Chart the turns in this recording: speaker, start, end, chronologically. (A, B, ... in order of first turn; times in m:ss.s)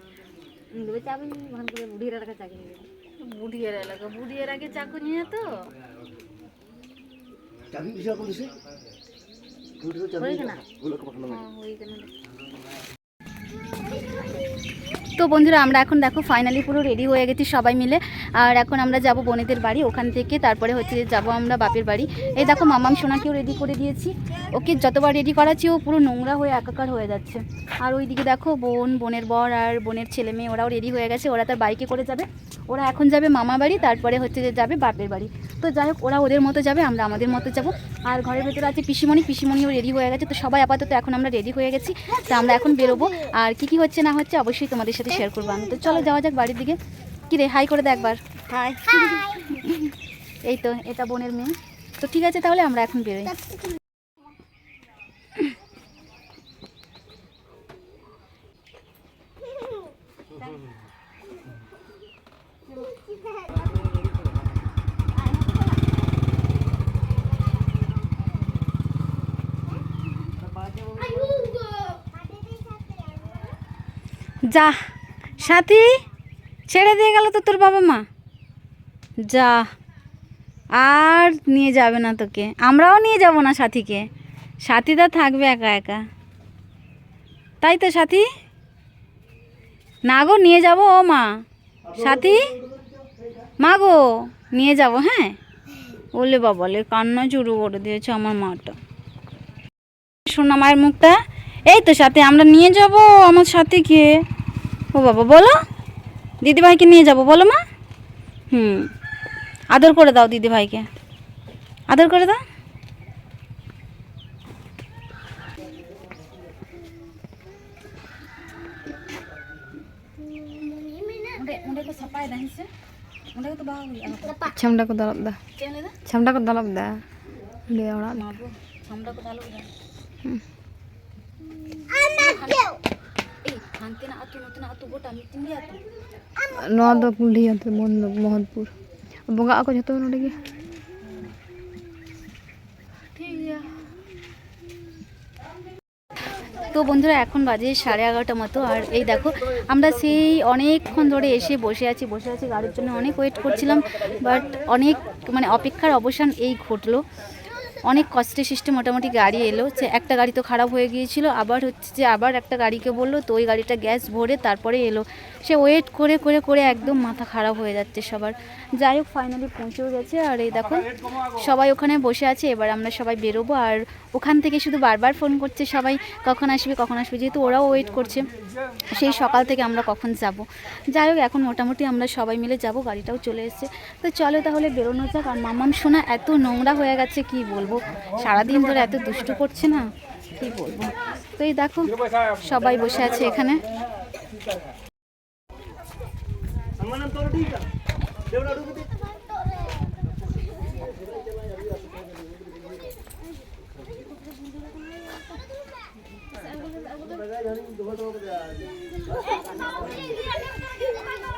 0:00.7-0:02.9 A
0:03.2-0:05.6 B
0:07.7-0:08.5 C
0:09.8-0:11.4 C
0:10.2-0:10.6 A
0:11.2-0:12.1 B
0:15.2-0:48.2 B
0:48.5-0:49.1 A
0:49.0-0:49.9 B
0:50.4-0:53.4 B
1:14.5-1:14.8 B
1:15.4-1:15.9 B
1:16.7-1:18.0 B
1:19.3-1:19.7 B
1:20.8-1:24.1 B
1:24.6-1:26.0 B
1:27.6-1:28.3 B
1:30.0-1:31.3 B
1:31.9-1:32.5 B
1:33.6-1:35.4 B
1:36.1-1:38.8 B
1:40.2-1:44.2 B
1:44.9-1:45.6 B
1:46.4-1:47.6 B
1:48.5-1:48.9 B
1:49.7-1:50.9 B
1:51.9-1:52.4 B
2:01.2-2:02.7 B
2:03.3-2:04.5 B
2:04.5-2:05.4 D
2:05.6-2:06.0 B
2:06.0-2:07.0 D
2:07.7-2:08.2 D
2:08.1-2:09.7 B
2:12.0-2:12.8 B
2:13.4-2:15.8 B
2:16.5-2:18.7 D
2:19.3-2:20.4 D
2:23.2-2:23.7 B
2:26.7-2:37.0 B
2:37.8-2:58.3 B
2:58.9-3:13.6 B
3:16.9-3:17.6 C
3:27.5-3:28.4 C